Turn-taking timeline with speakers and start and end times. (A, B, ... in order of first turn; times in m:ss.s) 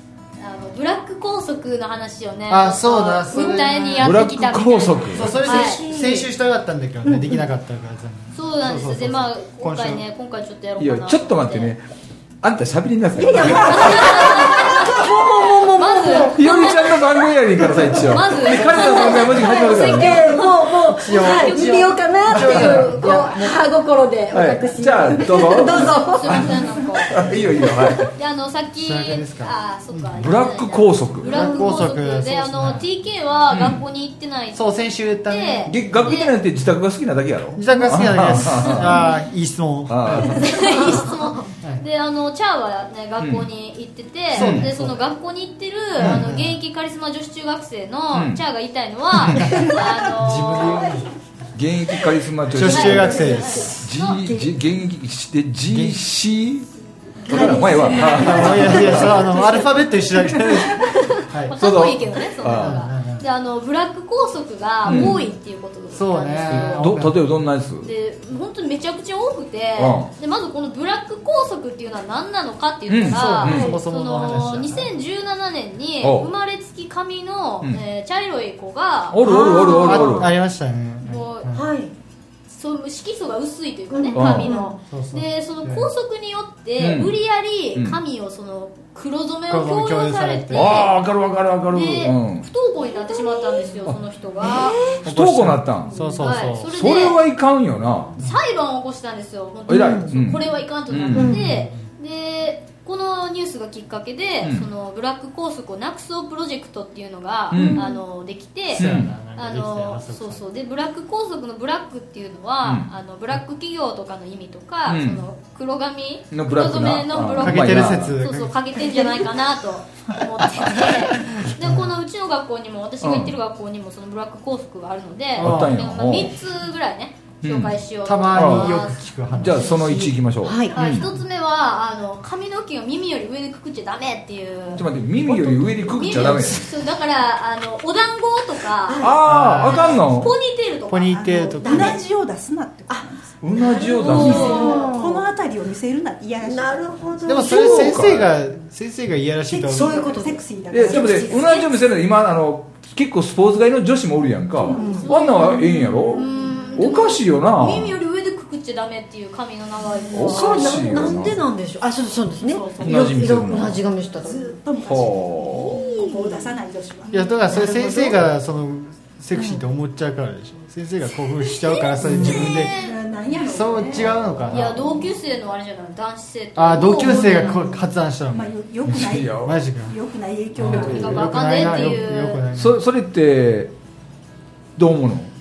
0:00.4-0:05.8 A
0:02.5-0:04.2 B
0:04.0-0:05.6 C
0:05.1-0:10.0 B
0:05.5-0:06.3 D
0:07.0-0:07.4 D
0:08.3-0:11.7 A
0:10.8-0:11.9 C
0:12.4-0:14.2 C
0:13.1-0:16.5 D
0:13.4-0:15.0 A
0:15.8-0:17.2 A
0:16.3-0:20.3 C
0:17.9-0:23.3 A
0:18.4-0:19.5 B
0:18.7-0:28.1 D
0:21.0-0:23.6 B
0:24.3-0:28.1 C
0:25.7-0:27.2 A
0:28.1-0:36.3 A
0:28.8-0:30.3 B
0:30.2-0:31.3 C
0:31.3-0:32.9 B
0:31.3-0:31.7 D
0:33.5-0:33.8 C
0:34.5-0:35.9 B
0:35.7-0:39.1 C
0:37.5-0:40.6 B
0:39.9-0:40.4 C
0:40.4-0:51.0 A
0:40.8-0:41.4 D
0:43.2-0:43.5 C
0:44.3-0:45.0 B
0:44.3-0:44.7 C
0:46.0-0:46.6 B
0:46.0-0:46.2 C
0:48.1-0:48.4 C
0:49.2-0:49.6 C
0:49.3-0:51.0 B
0:51.5-0:56.7 C
0:52.5-0:53.8 B
0:52.6-0:54.2 A
0:55.7-0:56.0 B
0:57.3-0:58.7 D
0:57.3-0:59.4 C
0:58.0-1:01.6 B
1:01.5-1:06.9 A
1:01.6-1:02.8 C
1:02.4-1:03.2 B
1:04.8-1:05.2 C
1:04.9-1:05.2 B
1:05.9-1:07.2 B
1:06.5-1:07.9 C
1:07.8-1:20.3 A
1:09.8-1:10.1 C
1:12.9-1:13.7 C
1:13.1-1:14.9 B
1:13.5-1:13.8 D
1:16.0-1:16.3 C
1:19.1-1:20.3 C
1:19.3-1:20.0 D
1:19.8-1:21.7 B
1:21.0-1:21.5 A
1:21.5-1:21.9 D
1:22.5-1:30.9 A
1:23.9-1:24.8 D
1:24.1-1:24.6 C
1:24.8-1:25.9 B
1:26.8-1:27.1 C
1:29.5-1:30.8 B
1:30.5-1:32.5 C
1:31.7-1:34.8 A
1:32.9-1:33.7 D
1:34.4-1:35.0 D
1:35.0-1:36.7 B
1:35.0-1:36.0 C
1:35.9-1:36.2 E
1:36.2-1:37.2 A
1:36.7-1:38.2 C
1:38.2-2:09.1 A
1:39.7-1:41.4 C
1:39.7-1:40.1 D
1:41.1-1:41.5 D
1:41.3-1:41.8 B
1:44.4-1:44.7 C
1:47.5-1:47.9 C
1:47.5-1:48.0 D
1:48.7-1:50.4 B
1:48.8-1:49.1 C
1:54.9-1:55.2 C
1:56.3-1:58.2 C
1:57.4-1:59.2 B
2:00.6-2:02.0 B
2:03.0-2:03.4 C
2:05.4-2:05.8 B
2:05.4-2:06.3 C
2:07.4-2:07.7 C
2:08.0-2:10.2 B
2:08.3-2:08.8 C
2:09.4-2:11.1 C
2:10.4-2:10.8 D
2:10.7-2:19.1 A
2:14.7-2:16.7 C
2:18.8-2:19.2 D
2:19.0-2:20.3 C
2:19.2-2:20.3 B
2:19.6-2:21.1 A
2:20.9-2:22.0 B
2:21.0-2:23.3 E
2:21.6-2:22.0 D
2:22.9-2:25.3 D
2:23.4-2:24.8 C
2:24.0-2:24.9 A
2:24.0-2:27.1 E
2:26.4-2:28.1 D
2:27.2-2:30.1 B
2:27.5-2:28.3 C
2:29.5-2:31.8 D
2:29.5-2:31.4 E
2:30.7-2:36.2 C
2:34.5-2:35.1 E
2:34.7-2:36.2 D
2:35.0-2:40.8 A
2:36.4-2:36.7 E
2:36.8-2:38.0 C
2:40.1-2:41.4 C
2:40.1-2:44.6 D
2:42.4-2:47.7 E
2:42.8-2:43.8 C
2:44.8-2:45.8 C
2:45.6-2:46.5 D
2:45.7-2:46.3 A
2:47.0-2:47.8 A
2:47.1-2:52.8 B
2:47.5-2:48.2 D
2:51.8-2:53.0 A
2:52.0-2:54.6 E
2:53.4-2:54.9 B
2:54.5-2:57.8 A
2:56.6-2:58.5 B
2:57.1-2:57.6 E
2:58.3-3:01.9 E
2:58.8-2:59.5 C
2:59.4-3:00.0 B
3:00.6-3:02.8 B
3:00.7-3:01.1 C
3:00.7-3:02.4 A
3:02.5-3:03.7 C
3:04.8-3:05.3 C